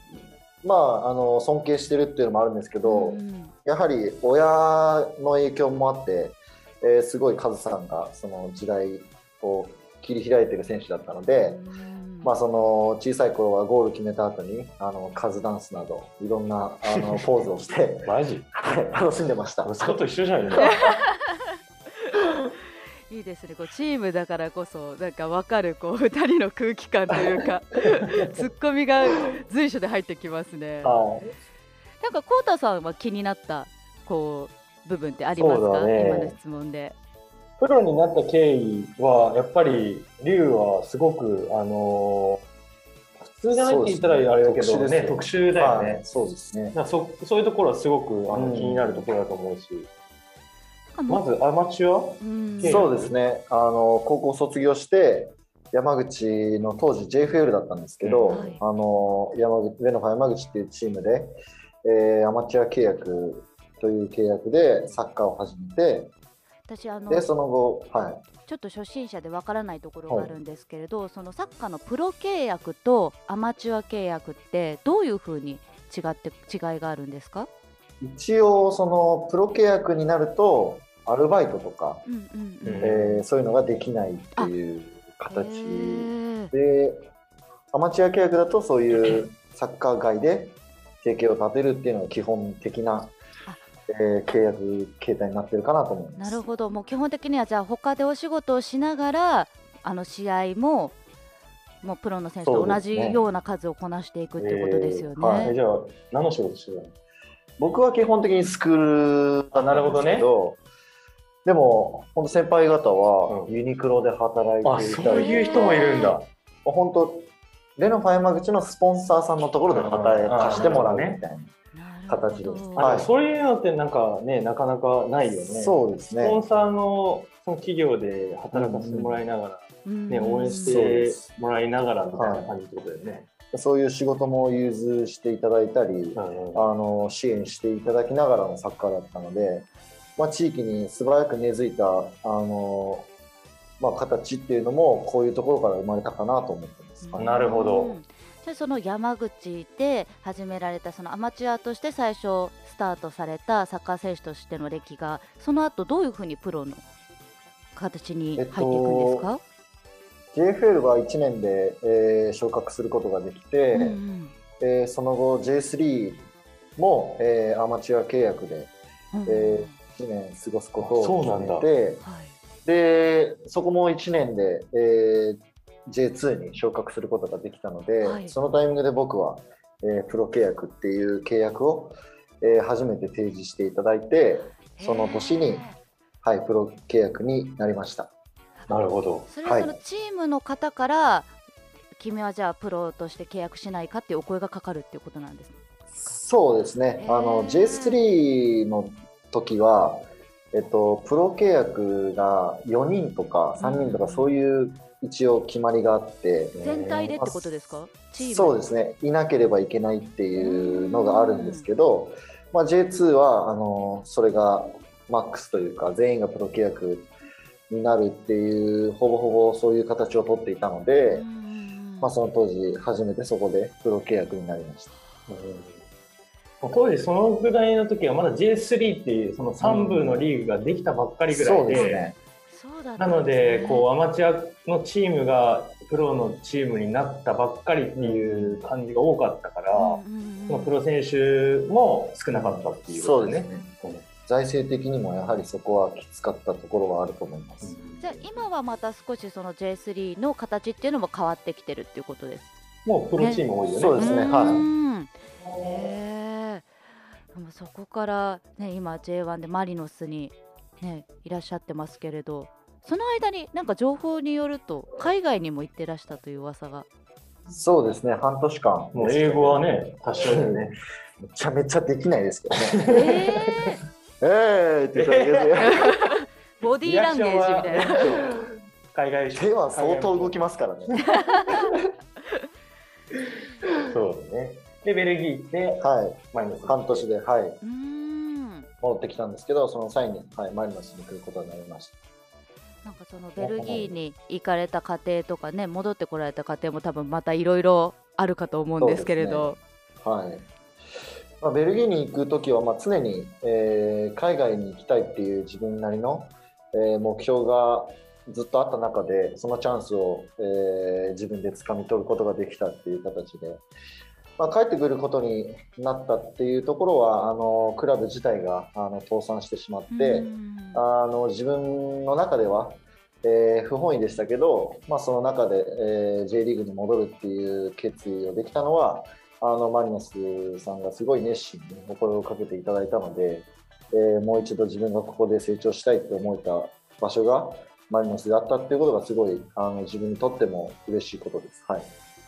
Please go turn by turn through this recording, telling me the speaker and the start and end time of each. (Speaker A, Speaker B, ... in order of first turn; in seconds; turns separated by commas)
Speaker A: 0.6-11.6, Speaker B: 2.8-3.5, Speaker B: 11.4-12.3, Speaker A: 12.2-20.7, Speaker C: 18.0-18.4, Speaker C: 19.6-21.0, Speaker B: 20.6-21.4, Speaker B: 23.1-30.9, Speaker C: 28.0-28.3, Speaker C: 30.8-31.3, Speaker B: 32.0-37.0, Speaker C: 35.4-36.3, Speaker C: 37.6-42.4, Speaker C: 43.2-46.0, Speaker A: 43.5-46.8, Speaker C: 46.7-49.9, Speaker A: 48.3-49.1, Speaker B: 50.9-51.2, Speaker C: 51.1-53.1, Speaker B: 52.2-52.9, Speaker A: 52.6-66.1, Speaker C: 58.0-58.4, Speaker B: 58.3-58.6, Speaker B: 66.7-67.3, Speaker A: 67.1-68.2, Speaker B: 68.4-77.5, Speaker A: 70.1-70.3, Speaker A: 78.0-82.0, Speaker B: 82.0-82.9, Speaker C: 82.6-83.2, Speaker A: 82.8-87.1, Speaker B: 85.3-86.5, Speaker A: 87.7-93.1, Speaker A: 93.9-96.4, Speaker B: 96.2-101.0, Speaker B: 101.8-105.5, Speaker A: 102.5-103.2, Speaker C: 104.4-106.9, Speaker A: 105.2-105.5, Speaker A: 107.6-110.6, Speaker C: 109.5-110.3, Speaker A: 111.4-116.1, Speaker C: 113.3-113.5, Speaker C: 114.6-116.3, Speaker B: 115.1-116.2, Speaker A: 116.6-121.5, Speaker C: 119.7-121.2, Speaker B: 121.7-122.9, Speaker A: 122.1-123.1, Speaker C: 122.8-133.3, Speaker A: 125.4-126.4, Speaker A: 128.5-129.2, Speaker B: 129.8-130.8, Speaker A: 130.5-131.2, Speaker A: 132.2-132.5, Speaker A: 133.5-139.7, Speaker C: 136.1-136.7, Speaker A: 140.2-143.1, Speaker A: 143.8-147.4, Speaker B: 147.0-156.8, Speaker C: 147.2-148.0, Speaker B: 157.8-159.4, Speaker A: 158.3-159.3, Speaker A: 160.3-164.0, Speaker B: 163.7-164.3, Speaker A: 164.6-166.2, Speaker A: 166.8-168.7, Speaker B: 169.1-169.8, Speaker A: 169.2-172.0, Speaker C: 170.8-171.7, Speaker B: 172.0-172.3, Speaker A: 172.6-185.6, Speaker B: 178.0-178.3, Speaker B: 184.8-185.8, Speaker A: 186.2-188.1, Speaker C: 188.7-189.3, Speaker B: 189.3-191.3, Speaker A: 189.4-189.7, Speaker B: 192.0-195.6, Speaker A: 195.9-206.6, Speaker B: 197.0-197.9, Speaker B: 203.6-204.3, Speaker C: 206.5-207.1, Speaker B: 206.6-208.6, Speaker A: 207.1-207.5, Speaker A: 208.2-217.1, Speaker B: 210.4-211.6, Speaker A: 217.7-221.2, Speaker B: 221.1-222.1, Speaker A: 222.0-224.9, Speaker C: 225.3-225.8, Speaker C: 226.6-232.0, Speaker A: 229.6-230.3, Speaker A: 231.3-232.2, Speaker B: 231.7-233.9, Speaker C: 233.0-244.0, Speaker A: 238.0-238.6, Speaker B: 239.7-240.7, Speaker A: 242.3-243.7, Speaker A: 244.2-247.8, Speaker C: 247.6-248.1, Speaker B: 248.0-252.5, Speaker C: 252.8-254.7, Speaker B: 253.2-253.4, Speaker A: 253.7-254.7, Speaker B: 254.0-256.7, Speaker B: 257.3-266.9, Speaker A: 267.5-270.6, Speaker C: 268.9-270.8, Speaker A: 271.2-273.0, Speaker C: 272.6-273.7, Speaker B: 272.9-273.8, Speaker A: 274.2-275.9, Speaker C: 274.9-275.8, Speaker B: 275.6-278.3, Speaker C: 276.8-278.4, Speaker A: 277.9-278.4, Speaker C: 278.9-280.9, Speaker A: 279.3-281.8, Speaker B: 281.1-281.7, Speaker C: 283.7-287.1, Speaker A: 285.8-287.6, Speaker B: 287.6-288.7, Speaker A: 288.8-291.9, Speaker B: 292.8-299.6, Speaker A: 293.4-293.9, Speaker A: 298.8-300.4, Speaker A: 301.4-313.6, Speaker A: 314.4-341.9, Speaker B: 319.9-320.8